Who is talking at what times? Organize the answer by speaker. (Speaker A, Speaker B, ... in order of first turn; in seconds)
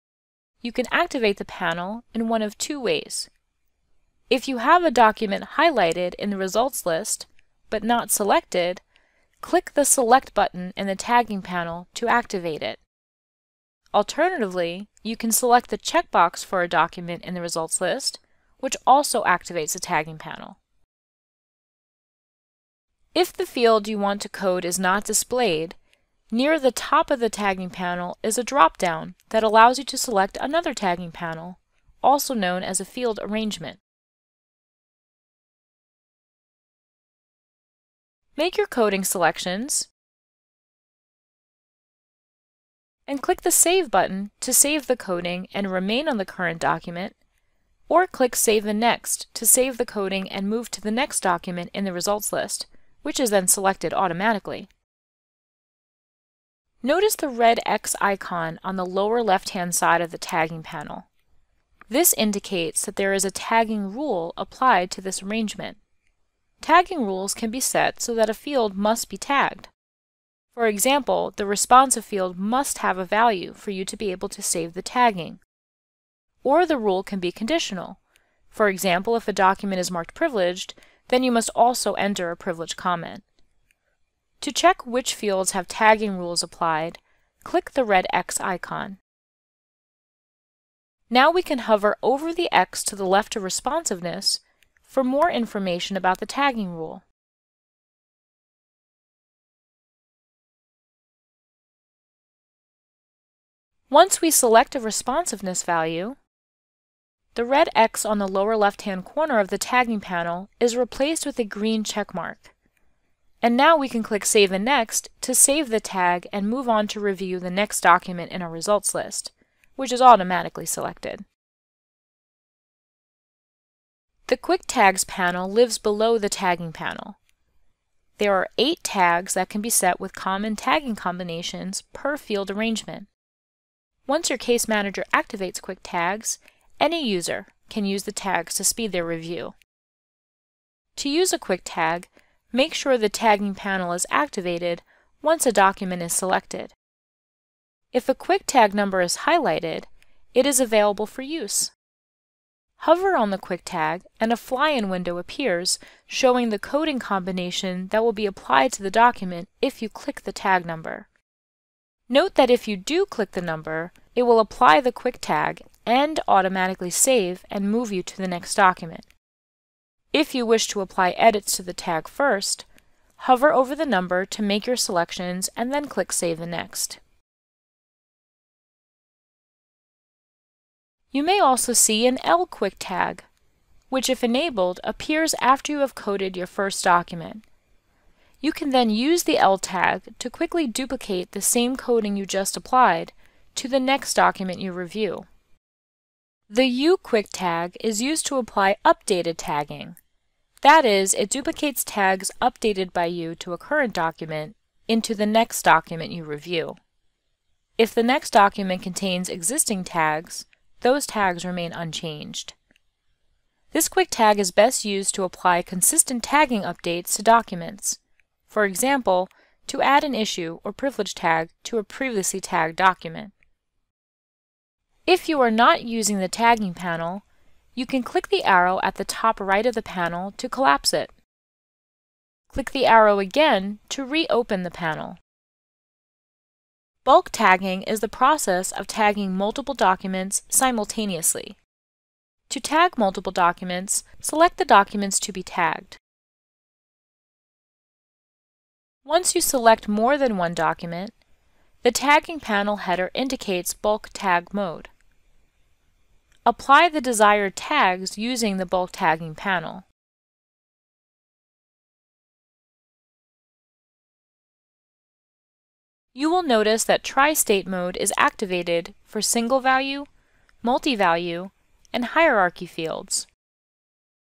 Speaker A: 0.6-3.3, 4.3-8.8, 9.4-12.8, 13.9-20.6, 23.1-25.8, 26.3-33.8, 38.4-39.9, 43.1-47.2, 47.9-54.7, 56.8-61.1, 61.9-65.8, 66.6-69.7, 70.5-75.4, 76.4-78.0, 78.5-83.2, 84.4-89.0, 91.1-97.0, 103.9-106.2, 107.3-112.5, 113.4-121.3, 124.3-127.2, 128.2-133.1, 134.1-139.6, 141.0-146.8, 147.9-151.7, 152.8-161.1, 162.1-169.1, 170.1-172.7, 173.2-177.0, 181.1-183.3, 183.9-187.4, 188.4-195.3, 196.5-200.0, 200.6-206.8, 207.8-212.6, 213.7-223.3, 225.1-227.2, 227.8-231.1, 232.5-235.2, 237.1-241.6, 242.5-246.0, 249.1-251.2, 251.8-254.9, 256.4-259.9, 266.1-270.1, 270.6-273.3